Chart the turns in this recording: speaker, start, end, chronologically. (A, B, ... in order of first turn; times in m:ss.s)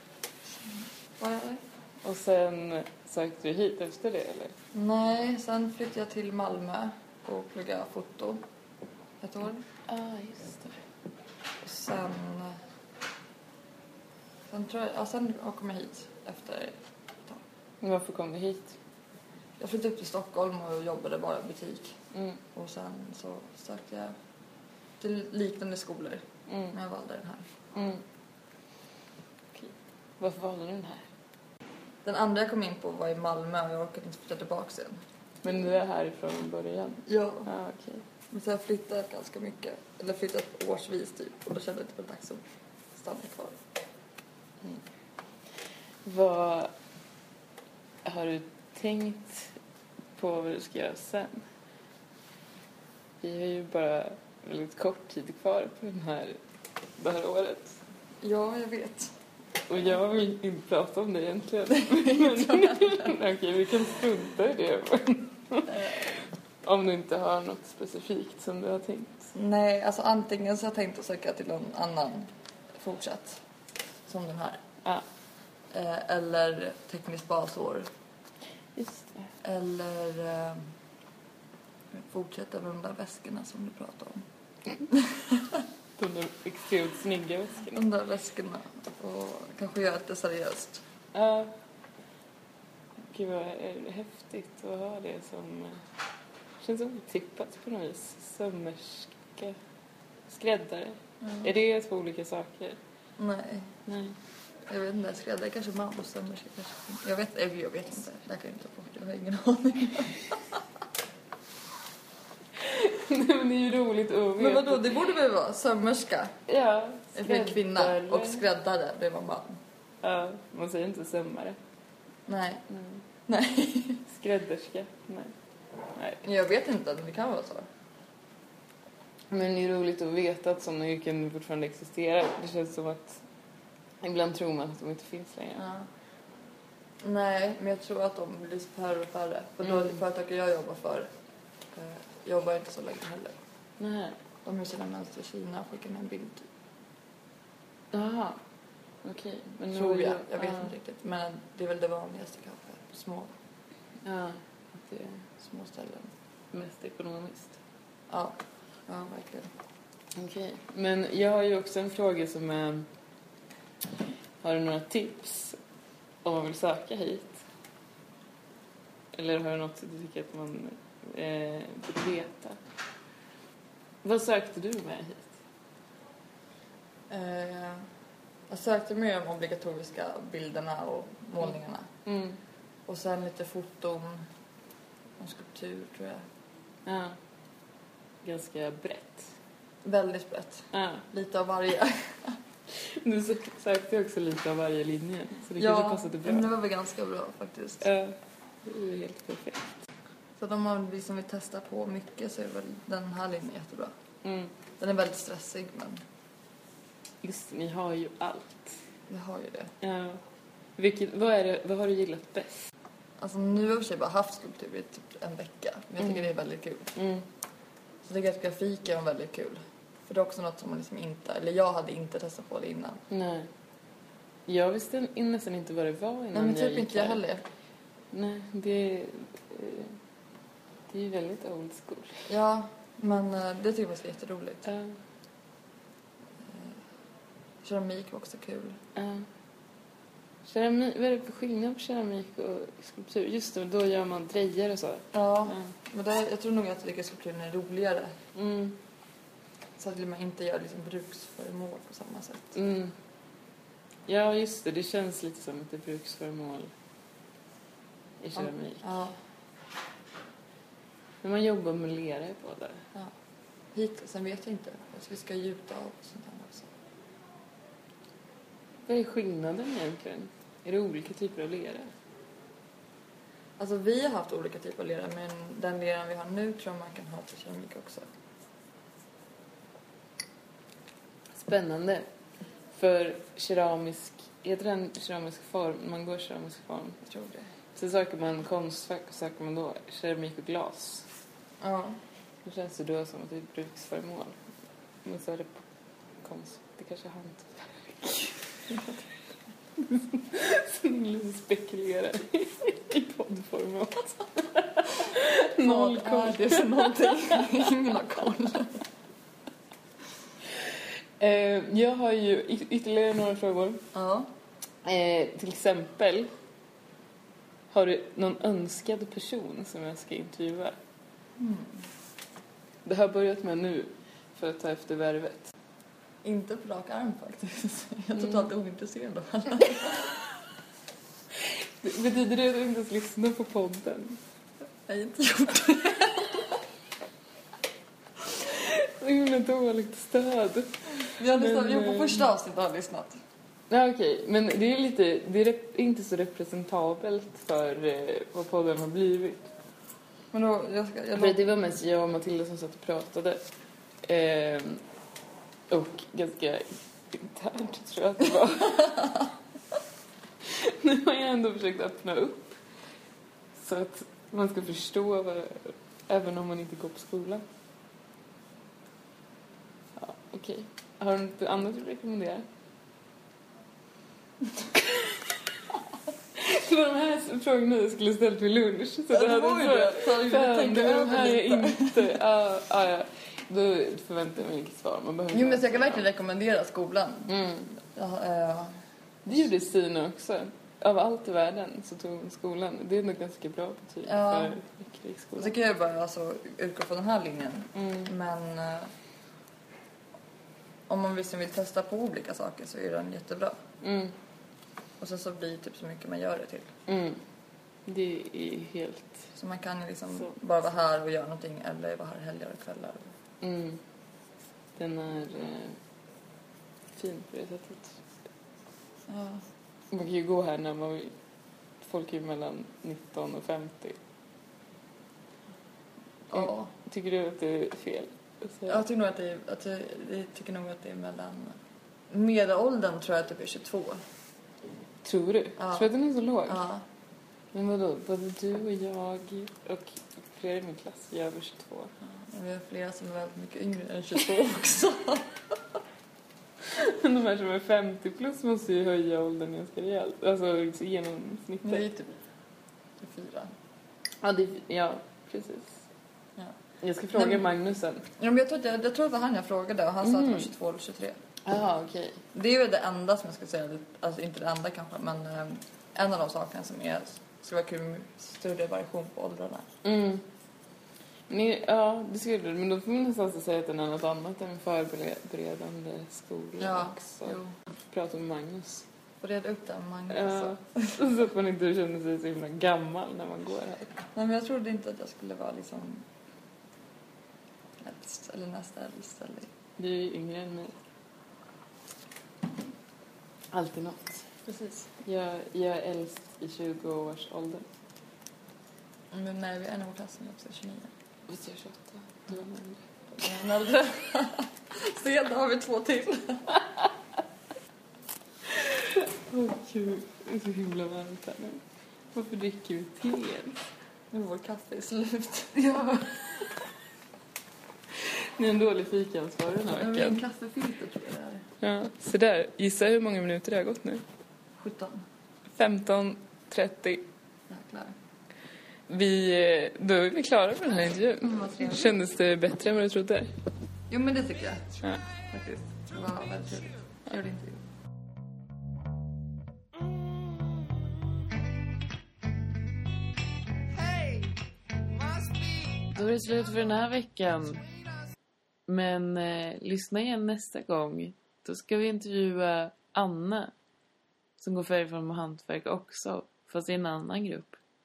0:00.6-0:01.6 A
0:02.0-0:04.5 B
0:04.7-0:08.4 A
0:09.2-0:09.6 A
0:09.9-0:10.8 B
0:11.6-0:12.6 A
0:14.5-0:17.4 A
0:17.8-0:18.8 B
0:19.6-0:22.0 A
0:22.1-0:22.4 B
0:22.5-0:24.1 A
0:25.0-0:27.5 A
0:26.5-0:26.8 B
0:27.8-0:28.0 B
0:29.5-0:31.1 B
0:32.0-0:35.0 A
0:35.4-0:38.0 B
0:37.1-0:37.5 A
0:38.3-0:42.4 A
0:42.9-0:43.6 A
0:46.0-0:46.7 B
0:48.0-0:49.6 B
0:50.2-0:51.4 B
0:53.2-0:56.4 B
0:57.0-0:57.8 B
0:58.2-0:59.1 A
0:59.7-1:09.3 B
1:01.9-1:03.1 A
1:05.7-1:06.0 A
1:09.4-1:13.4 A
1:14.1-1:14.6 A
1:15.7-1:17.9 A
1:18.8-1:19.3 B
1:19.4-1:20.6 A
1:22.0-1:24.2 A
1:24.9-1:25.6 A
1:26.0-1:27.8 B
1:27.7-1:30.8 A
1:31.1-1:31.5 B
1:33.1-1:35.8 B
1:36.6-1:39.6 B
1:40.3-1:42.8 B
1:41.2-1:41.5 A
1:43.2-1:43.7 A
1:43.9-1:44.2 B
1:44.7-1:50.3 A
1:52.6-1:55.0 B
1:54.4-1:56.3 A
1:56.5-1:58.4 B
1:57.2-1:59.6 A
2:00.0-2:01.6 B
2:02.3-2:02.6 A
2:02.7-2:03.0 B
2:03.3-2:04.0 A
2:04.1-2:05.3 B
2:06.0-2:06.2 B
2:06.2-2:07.7 A
2:09.3-2:13.2 B
2:14.0-2:15.6 B
2:15.6-2:15.9 A
2:17.0-2:21.1 A
2:21.7-2:23.4 A
2:23.8-2:24.2 B
2:24.4-2:26.5 A
2:27.9-2:28.4 B
2:29.0-2:30.7 B
2:29.7-2:33.3 A
2:34.0-2:35.2 B
2:35.4-2:36.1 A
2:36.5-2:37.6 B
2:38.1-2:38.4 A
2:38.9-2:39.5 A
2:40.2-2:42.9 B
2:44.4-2:45.6 B
2:46.2-2:47.4 B
2:49.1-2:52.6 B
2:54.0-2:55.4 B
2:57.1-2:57.8 A
2:58.5-3:01.9 A
3:02.1-3:02.4 B
3:02.9-3:04.2 A
3:05.2-3:06.2 A
3:06.9-3:07.2 B
3:08.2-3:09.3 B
3:09.8-3:12.4 A
3:10.7-3:11.0 B
3:12.8-3:16.5 B
3:15.6-3:17.9 A
3:17.8-3:19.8 B
3:20.4-3:23.9 A
3:24.2-3:24.5 B
3:24.8-3:26.0 A
3:27.2-3:28.8 B
3:29.1-3:29.7 A
3:29.8-3:30.2 B
3:30.8-3:32.7 B
3:33.2-3:36.9 A
3:36.0-3:36.3 B
3:37.0-3:37.3 B
3:38.0-3:43.0 A
3:43.1-3:43.5 B
3:44.5-3:47.2 B
3:46.3-3:47.4 A
3:48.1-3:50.0 B
3:50.9-3:52.3 B
3:52.3-3:54.7 A
3:54.6-3:55.0 B
3:57.6-3:58.8 A
3:59.0-3:59.3 B
4:00.4-4:05.7 B
4:05.1-4:08.1 A
4:08.4-4:08.8 B
4:09.8-4:12.6 A
4:12.5-4:12.9 B
4:14.1-4:16.7 B
4:18.2-4:19.0 B
4:18.4-4:19.1 A
4:21.2-4:22.8 B
4:23.7-4:26.7 A
4:28.8-4:31.9 B
4:33.6-4:38.0 A
4:41.4-4:42.1 B
4:42.7-4:47.0 B
4:47.1-4:47.5 A
4:47.8-4:51.1 B
4:51.6-4:52.0 A
4:52.4-4:54.4 B
4:55.0-4:55.5 B
4:56.2-4:58.4 B
4:59.8-5:07.6 B
5:05.6-5:08.8 A
5:11.2-5:13.8 B
5:13.9-5:14.3 A
5:14.8-5:16.3 B
5:17.7-5:20.8 B
5:21.4-5:21.8 A
5:22.8-5:25.5 B
5:26.2-5:30.2 A
5:31.5-5:34.2 B
5:34.9-5:36.6 A
5:38.3-5:40.7 B
5:41.2-5:43.2 A
5:41.2-5:42.3 B
5:43.7-5:49.5 B
5:50.3-5:51.5 A
5:51.1-5:53.4 B
5:54.0-5:54.8 B
5:55.7-5:59.2 B
6:00.4-6:02.6 B
6:03.6-6:07.4 B
6:10.0-6:12.4 B
6:14.8-6:15.2 B
6:16.4-6:26.1 B
6:19.1-6:22.1 A
6:25.3-6:28.7 A
6:27.3-6:27.7 B
6:29.3-6:35.6 B
6:34.0-6:34.6 A
6:35.4-6:38.9 A
6:37.8-6:38.1 B
6:40.9-6:43.6 A
6:43.8-6:44.1 B
6:45.0-6:46.7 A
6:46.9-6:47.2 B
6:47.9-6:49.2 B
6:49.4-6:53.1 A
6:53.4-6:53.8 B
6:54.8-6:55.8 B
6:57.0-6:58.0 B
6:59.1-6:59.4 A
6:59.9-7:01.1 B
7:01.8-7:04.0 B
7:06.3-7:06.7 A
7:06.3-7:08.8 B
7:08.7-7:11.6 A
7:12.1-7:14.0 A
7:15.0-7:16.6 B
7:15.6-7:15.9 A
7:16.4-7:16.8 A
7:17.5-7:21.9 B
7:22.3-7:25.4 A
7:26.6-7:31.8 B
7:31.6-7:32.2 A
7:33.0-7:33.5 A
7:34.2-7:35.8 B
7:36.8-7:38.1 B
7:37.2-7:37.4 A
7:38.2-7:41.2 A
7:40.0-7:40.5 B
7:41.5-7:42.2 B
7:42.3-7:49.6 A
7:49.8-7:50.2 B
7:51.3-7:58.8 B
7:56.6-7:57.5 A
7:59.2-8:01.0 A
8:00.1-8:04.0 B
8:04.2-8:06.0 A
8:07.8-8:09.5 A
8:09.8-8:10.8 B
8:13.5-8:14.3 B
8:14.5-8:14.9 A
8:15.0-8:17.7 B
8:19.1-8:20.9 A
8:21.3-8:22.8 B
8:23.2-8:26.6 A
8:28.5-8:31.6 B
8:32.1-8:33.6 B
8:34.1-8:36.5 A
8:38.0-8:40.2 B
8:39.7-8:41.5 A
8:41.6-8:44.0 B
8:44.6-8:45.0 A
8:45.6-8:47.1 B
8:47.5-8:48.0 A
8:48.9-8:53.3 B
8:51.2-8:52.0 A
8:53.9-8:54.7 A
8:55.3-8:57.6 A
9:05.9-9:07.7 B
9:08.7-9:13.5 B
9:14.4-9:17.6 B